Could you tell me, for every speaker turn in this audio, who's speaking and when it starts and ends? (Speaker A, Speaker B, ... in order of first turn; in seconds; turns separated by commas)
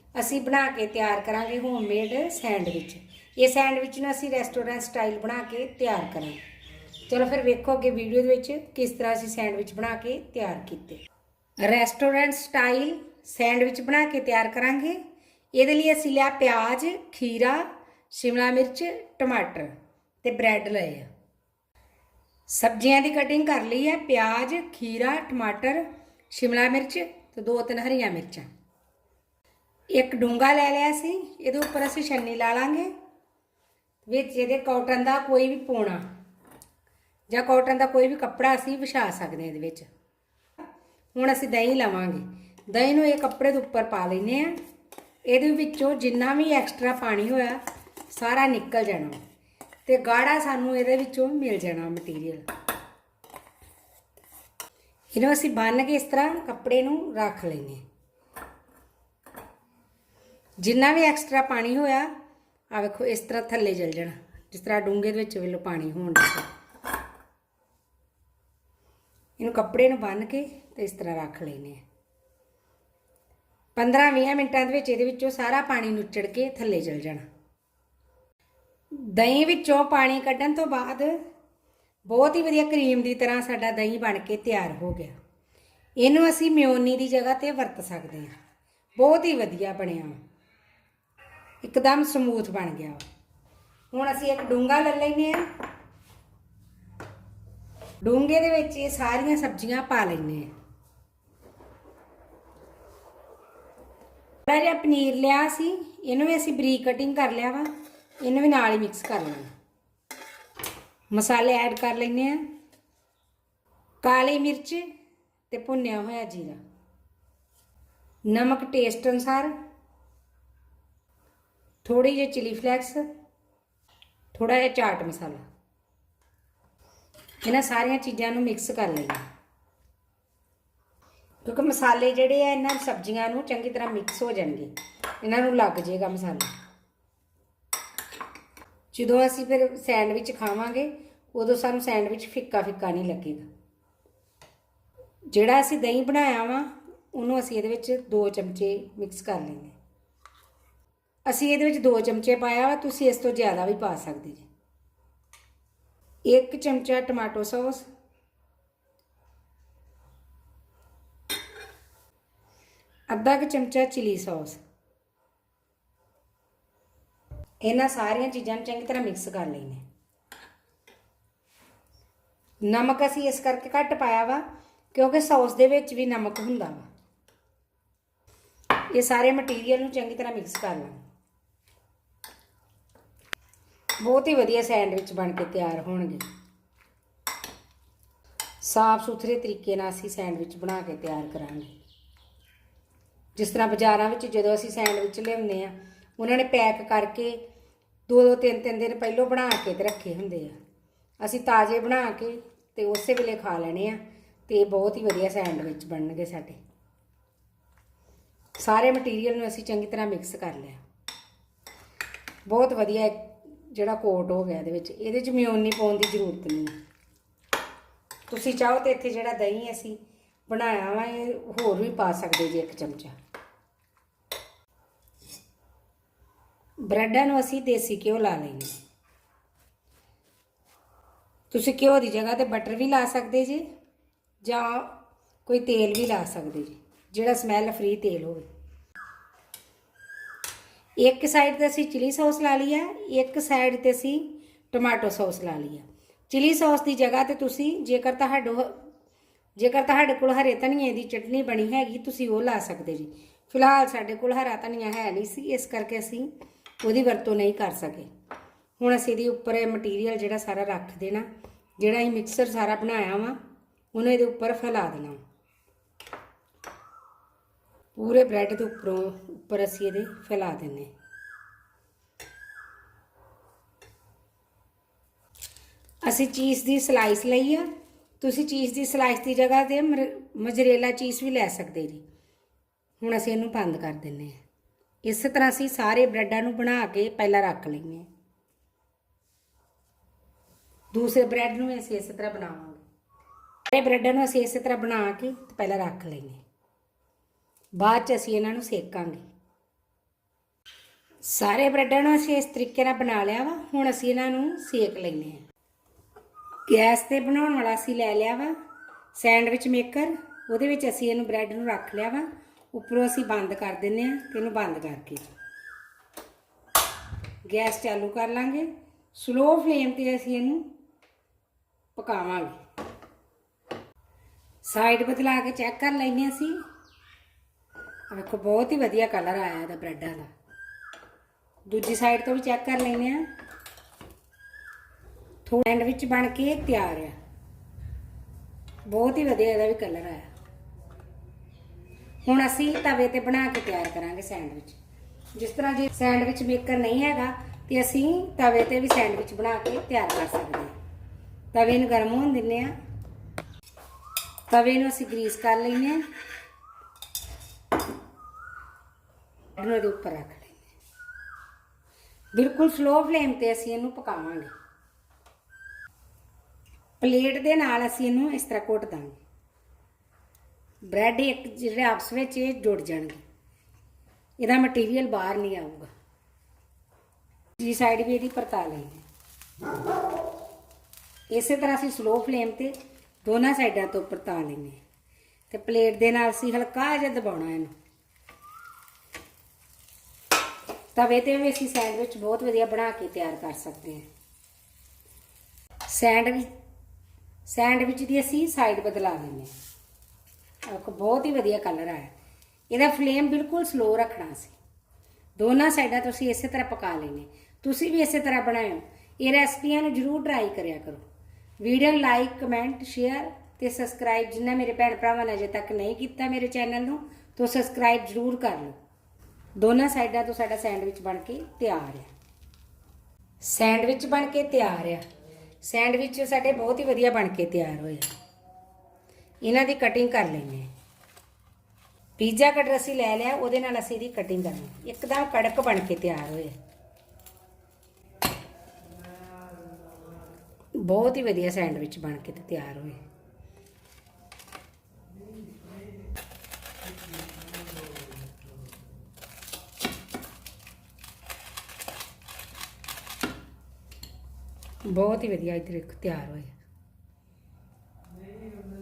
Speaker A: 0.1-6.4, Speaker A: 7.1-11.0, Speaker A: 11.6-15.0, Speaker A: 15.6-19.7, Speaker A: 20.2-21.1, Speaker A: 22.5-28.5, Speaker A: 29.9-32.9, Speaker A: 34.1-36.0, Speaker A: 37.3-39.9, Speaker A: 41.1-44.5, Speaker A: 45.3-47.6, Speaker A: 48.1-49.2, Speaker A: 49.9-52.4, Speaker A: 55.1-57.8, Speaker A: 60.6-62.1, Speaker A: 62.7-66.5, Speaker A: 69.4-71.8, Speaker A: 73.8-77.2, Speaker A: 78.9-81.2, Speaker A: 82.1-85.1, Speaker A: 86.0-88.3, Speaker A: 89.0-90.2, Speaker A: 91.6-93.0, Speaker A: 93.9-95.4, Speaker A: 98.0-100.5, Speaker A: 104.5-107.7, Speaker A: 108.2-109.5, Speaker A: 111.1-112.4, Speaker A: 114.0-114.8, Speaker A: 115.5-116.6, Speaker A: 118.3-119.5, Speaker A: 121.8-123.0, Speaker A: 124.3-125.4, Speaker A: 127.4-129.2, Speaker A: 131.4-136.5, Speaker A: 138.9-143.4, Speaker A: 145.3-149.8, Speaker A: 151.3-154.5, Speaker A: 156.3-157.8, Speaker A: 163.1-164.6, Speaker A: 167.6-169.8, Speaker A: 172.7-174.4, Speaker A: 174.9-176.8, Speaker A: 178.9-181.0, Speaker A: 184.0-186.2, Speaker A: 188.6-191.7, Speaker A: 193.4-197.4, Speaker A: 198.1-200.6, Speaker A: 201.2-206.6, Speaker A: 208.6-210.8, Speaker A: 212.5-216.7, Speaker A: 218.3-223.1, Speaker A: 226.8-228.8, Speaker A: 231.5-233.6, Speaker A: 234.4-234.9, Speaker A: 235.5-238.5, Speaker A: 241.0-248.8, Speaker A: 249.6-256.3, Speaker A: 256.8-258.1, Speaker A: 258.8-261.3, Speaker A: 261.8-263.4, Speaker A: 263.9-265.2, Speaker A: 268.0-270.9, Speaker A: 276.0-277.7, Speaker A: 278.2-282.0, Speaker A: 283.0-284.4, Speaker A: 285.0-288.1, Speaker A: 290.9-292.8, Speaker A: 293.7-296.4, Speaker A: 297.8-299.2, Speaker A: 301.3-305.4, Speaker A: 306.7-308.5, Speaker A: 309.1-315.3, Speaker A: 317.5-320.6, Speaker A: 322.0-322.6, Speaker A: 324.6-326.6, Speaker A: 328.1-330.3, Speaker A: 331.7-333.2, Speaker A: 335.4-337.1, Speaker A: 338.9-340.3, Speaker A: 342.2-344.8, Speaker A: 345.4-350.7, Speaker A: 351.5-352.7, Speaker A: 354.5-356.0, Speaker A: 359.6-360.6, Speaker A: 362.3-364.5, Speaker A: 367.0-369.2, Speaker A: 370.9-373.2, Speaker A: 374.4-375.9, Speaker A: 377.6-379.0, Speaker A: 381.3-384.8, Speaker A: 385.5-387.7, Speaker A: 390.9-394.1, Speaker A: 395.9-396.5, Speaker A: 397.5-399.5, Speaker A: 400.7-402.1, Speaker A: 402.7-404.6, Speaker A: 405.4-411.0, Speaker A: 411.6-418.8, Speaker A: 419.6-422.1, Speaker A: 423.4-425.0, Speaker A: 425.6-428.1, Speaker A: 429.4-430.7, Speaker A: 432.2-436.5, Speaker A: 440.8-443.0, Speaker A: 454.9-456.5